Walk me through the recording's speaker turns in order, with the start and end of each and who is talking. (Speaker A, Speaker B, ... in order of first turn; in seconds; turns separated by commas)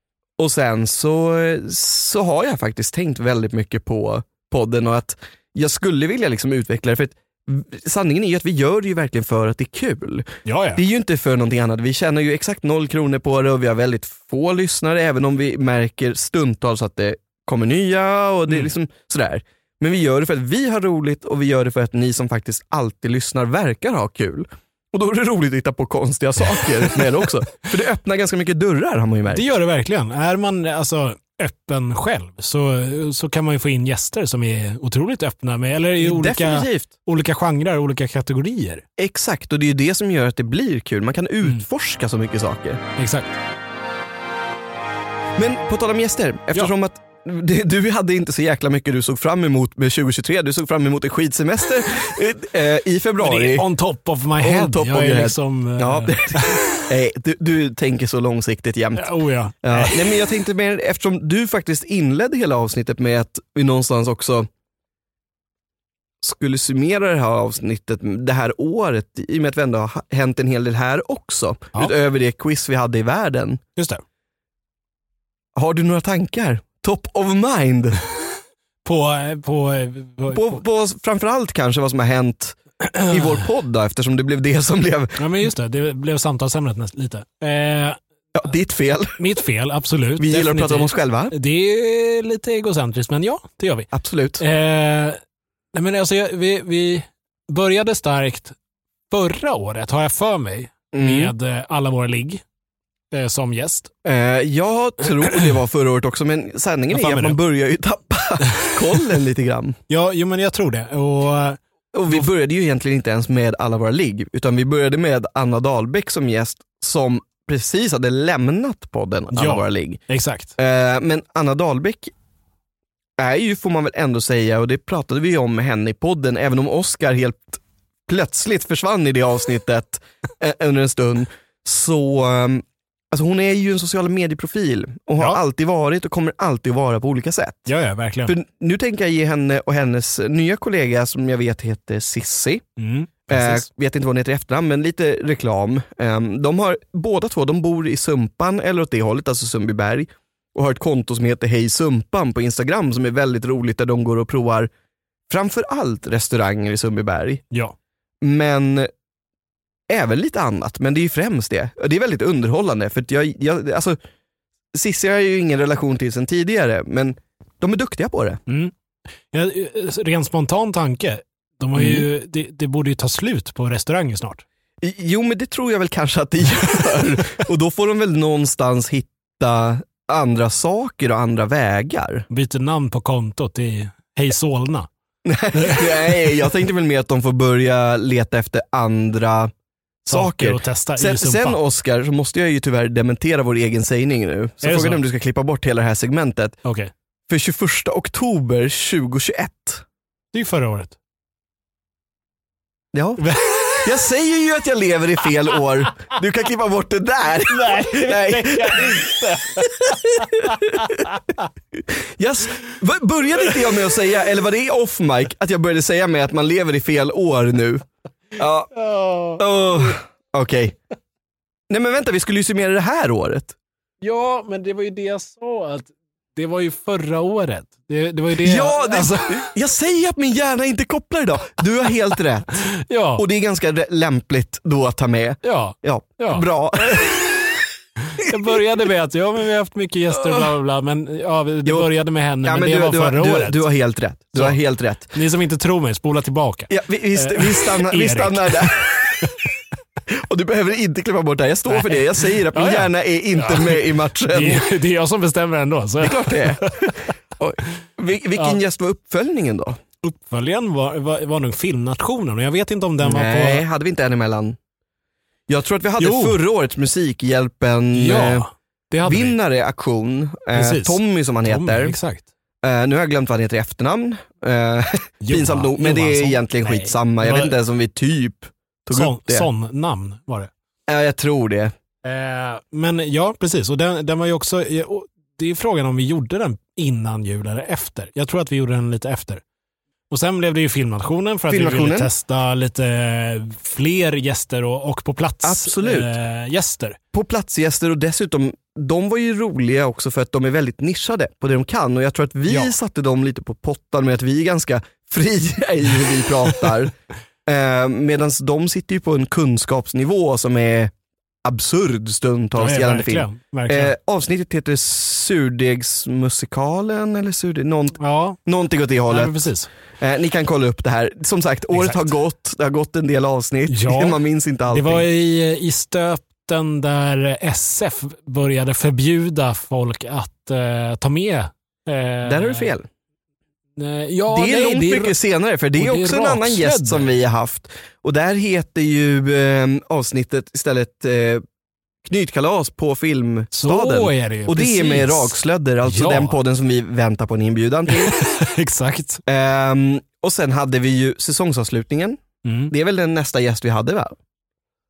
Speaker A: 0.4-29.4, Speaker B: 10.4-10.8, Speaker B: 29.3-38.8, Speaker A: 36.0-36.9, Speaker A: 39.0-42.8, Speaker B: 43.0-43.3, Speaker A: 45.4-53.6, Speaker B: 53.2-56.9, Speaker A: 54.4-59.1, Speaker B: 59.0-60.2, Speaker A: 59.6-64.5, Speaker A: 66.2-73.6, Speaker B: 73.8-74.0, Speaker A: 75.5-78.0, Speaker B: 78.8-80.6, Speaker A: 80.3-85.2, Speaker B: 82.8-83.3, Speaker B: 85.2-88.0, Speaker A: 88.3-89.2, Speaker B: 89.2-95.2, Speaker A: 90.2-91.3, Speaker A: 93.9-94.4, Speaker B: 95.7-98.6, Speaker B: 99.1-102.4, Speaker A: 100.9-101.3, Speaker B: 103.1-103.9, Speaker A: 104.0-109.8, Speaker B: 106.9-107.4, Speaker B: 108.4-109.0, Speaker B: 109.9-111.6, Speaker A: 111.9-120.0, Speaker B: 119.3-120.5, Speaker A: 120.6-122.1, Speaker A: 123.2-137.7, Speaker B: 137.7-138.3, Speaker A: 138.2-142.6, Speaker B: 142.8-143.6, Speaker A: 143.3-154.7, Speaker A: 155.3-157.4, Speaker A: 158.2-158.9, Speaker A: 159.9-164.0, Speaker A: 164.7-168.4, Speaker B: 169.3-174.4, Speaker A: 171.7-172.0, Speaker A: 174.8-182.2, Speaker B: 182.3-184.9, Speaker A: 185.2-189.5, Speaker B: 185.5-186.3, Speaker B: 190.1-191.6, Speaker A: 190.1-196.6, Speaker B: 194.6-195.0, Speaker B: 196.6-196.9, Speaker A: 197.3-199.8, Speaker B: 200.3-200.9, Speaker A: 202.9-203.2, Speaker B: 203.2-203.9, Speaker A: 203.8-211.1, Speaker B: 207.5-211.5, Speaker A: 211.7-217.8, Speaker A: 218.4-218.7, Speaker B: 218.7-219.9, Speaker A: 219.4-220.8, Speaker A: 221.7-223.5, Speaker B: 224.0-229.5, Speaker A: 228.3-232.5, Speaker B: 232.7-233.2, Speaker A: 233.2-237.2, Speaker B: 235.4-237.4, Speaker B: 238.0-243.6, Speaker A: 238.2-238.6, Speaker A: 240.2-240.5, Speaker A: 242.4-245.1, Speaker B: 244.3-244.6, Speaker B: 245.1-249.5, Speaker A: 246.7-249.4, Speaker A: 250.1-254.6, Speaker B: 251.7-257.0, Speaker A: 256.0-259.8, Speaker B: 260.0-263.6, Speaker A: 263.0-264.6, Speaker A: 265.5-268.4, Speaker B: 266.0-266.4, Speaker B: 267.9-269.4, Speaker A: 269.0-271.9, Speaker B: 270.5-272.2, Speaker A: 272.6-279.5, Speaker B: 275.2-277.5, Speaker B: 278.9-280.5, Speaker A: 280.9-281.7, Speaker B: 282.0-289.4, Speaker B: 290.1-297.0, Speaker A: 291.5-292.1, Speaker A: 295.4-296.1, Speaker A: 297.1-306.9, Speaker A: 307.4-310.9, Speaker A: 311.4-319.5, Speaker B: 312.6-313.9, Speaker B: 318.0-318.4, Speaker B: 319.1-319.7, Speaker A: 320.0-325.0, Speaker B: 321.7-322.0, Speaker B: 323.7-332.7, Speaker A: 332.2-332.9, Speaker B: 333.8-335.1, Speaker A: 334.3-341.4, Speaker B: 335.8-337.1, Speaker A: 342.0-348.1, Speaker B: 343.5-346.4, Speaker B: 347.9-349.2, Speaker A: 349.2-354.1, Speaker B: 352.4-352.7